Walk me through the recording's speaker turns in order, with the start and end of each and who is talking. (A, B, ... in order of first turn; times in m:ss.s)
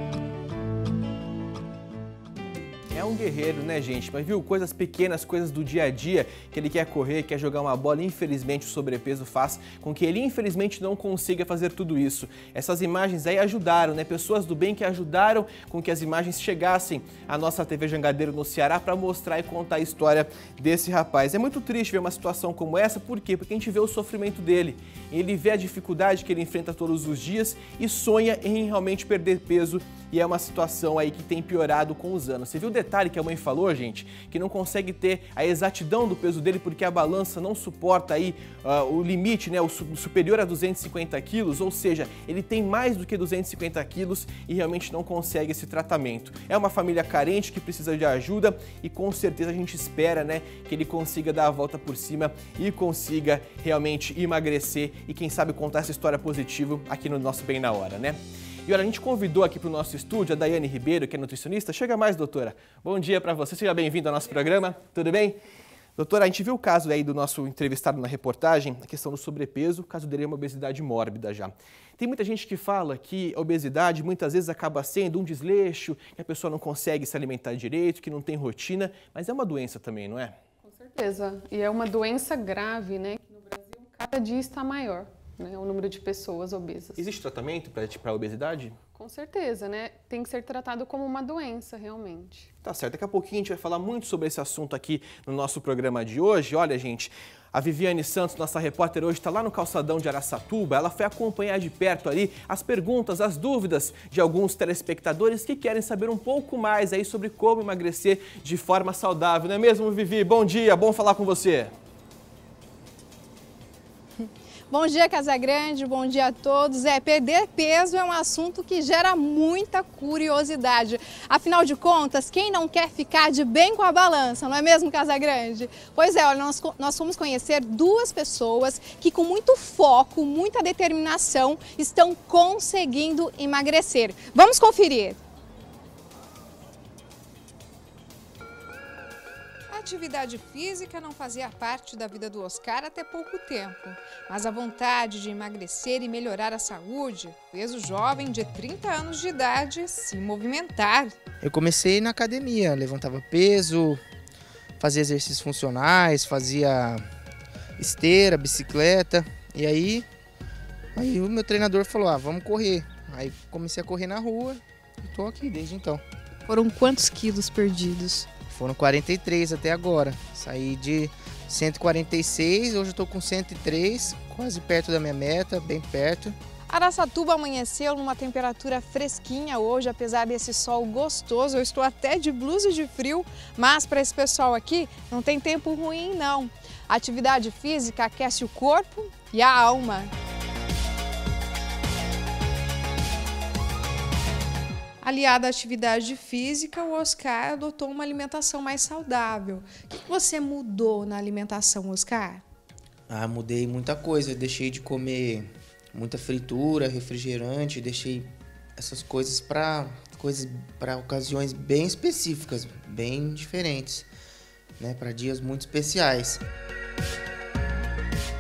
0:02.9-1:05.4 A
1:06.0-1:20.4 A
1:20.6-1:27.0 B
1:27.0-1:28.8 A
1:29.0-1:32.5 B
1:32.6-1:51.7 A
1:54.2-2:15.2 C
2:19.7-2:31.2 C
2:31.4-2:34.0 D
2:34.8-2:37.0 D
2:37.8-2:40.0 D
2:40.9-2:46.0 D
2:46.5-2:48.3 C
2:48.5-2:56.4 D
2:56.7-3:10.1 C
3:15.0-3:22.4 C
3:23.1-3:34.1 D
3:34.8-3:36.4 D